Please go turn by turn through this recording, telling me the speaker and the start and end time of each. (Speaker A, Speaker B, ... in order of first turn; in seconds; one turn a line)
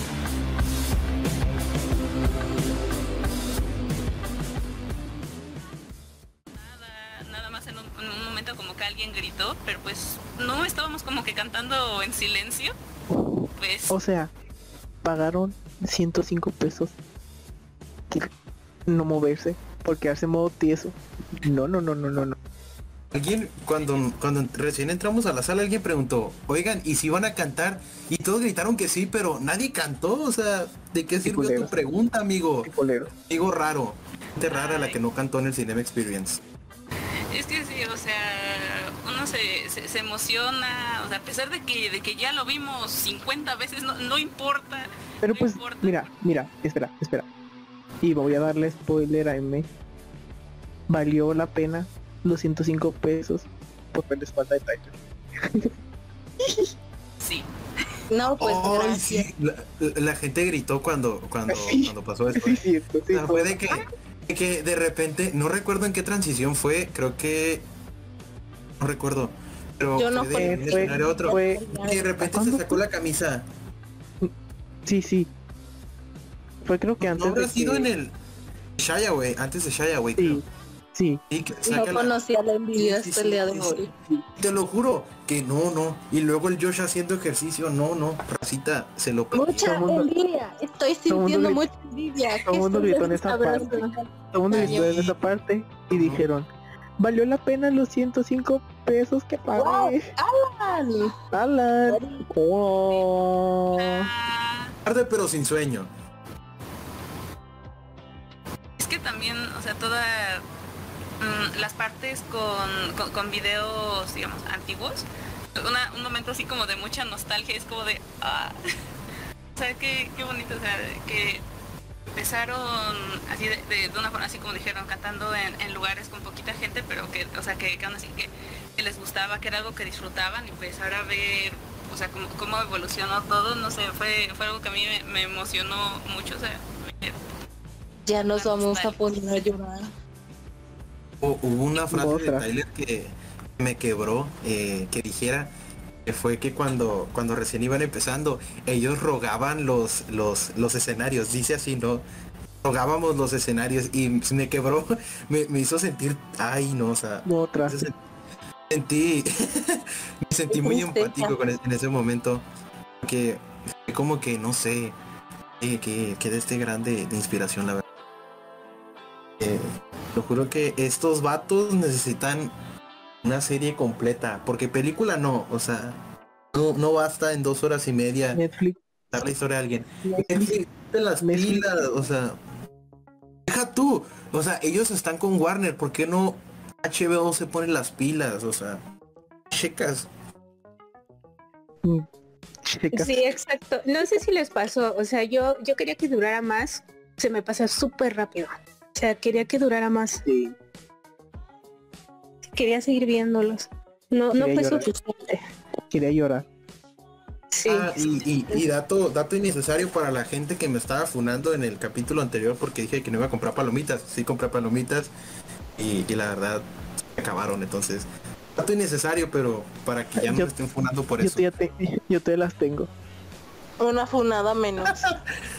Speaker A: 6.5-12.7
Speaker B: 13.2-14.3
Speaker A: 13.6-13.9
Speaker B: 15.0-16.9
Speaker B: 18.9-22.4
Speaker C: 23.1-32.7
Speaker B: 31.2-31.8
Speaker B: 32.6-33.1
Speaker C: 33.2-36.4
Speaker A: 34.5-35.0
Speaker A: 37.3-46.1
Speaker B: 45.2-47.3
Speaker B: 48.0-49.7
Speaker B: 50.9-55.0
Speaker A: 57.2-57.5
Speaker D: 58.1-59.3
Speaker C: 58.4-67.6
Speaker B: 61.5-63.6
Speaker C: 68.8-73.5
Speaker D: 70.0-72.1
Speaker B: 70.3-71.6
Speaker B: 72.2-72.8
Speaker B: 74.8-75.3
Speaker B: 76.6-77.9
Speaker C: 77.0-78.1
Speaker C: 78.8-80.4
Speaker B: 80.2-81.2
Speaker C: 81.3-82.1
Speaker D: 81.7-83.9
Speaker C: 82.8-89.8
Speaker D: 89.3-92.9
Speaker B: 89.6-90.1
Speaker B: 91.1-91.6
Speaker B: 92.5-96.5
Speaker E: 92.7-93.9
Speaker D: 93.5-94.0
Speaker D: 94.5-95.0
Speaker C: 94.6-95.1
Speaker C: 95.9-96.2
Speaker B: 97.0-100.1
Speaker D: 99.5-101.1
Speaker B: 101.3-104.1
Speaker D: 101.9-102.2
Speaker A: 103.8-104.7
Speaker C: 104.8-105.9
Speaker A: 108.8-110.4
Speaker A: 111.2-115.0
Speaker A: 115.5-118.5
Speaker A: 119.5-121.4
Speaker A: 122.1-137.2
Speaker D: 138.0-139.9
Speaker A: 138.3-138.9
Speaker C: 141.2-145.5
Speaker B: 141.9-142.5
Speaker C: 146.1-152.0
Speaker C: 152.6-157.9
Speaker B: 157.2-157.8
Speaker C: 158.7-162.4
Speaker D: 160.5-161.3
Speaker C: 163.0-164.9
Speaker C: 165.6-167.8
Speaker C: 169.4-172.5
Speaker C: 173.2-176.0
Speaker C: 176.5-178.4
Speaker B: 178.3-179.3
Speaker C: 179.1-182.4
Speaker B: 180.0-180.6
Speaker B: 181.2-181.7
Speaker C: 183.5-188.8
Speaker C: 189.5-190.1
Speaker B: 192.7-193.3
Speaker E: 192.9-200.2
Speaker B: 200.2-200.5
Speaker E: 202.5-205.4
Speaker B: 204.3-204.9
Speaker B: 205.9-206.4
Speaker E: 207.5-208.6
Speaker C: 207.7-215.1
Speaker C: 215.8-216.6
Speaker C: 217.2-218.1
Speaker C: 218.6-221.5
Speaker B: 220.2-220.5
Speaker B: 221.2-222.9
Speaker D: 223.8-225.0
Speaker C: 224.8-225.2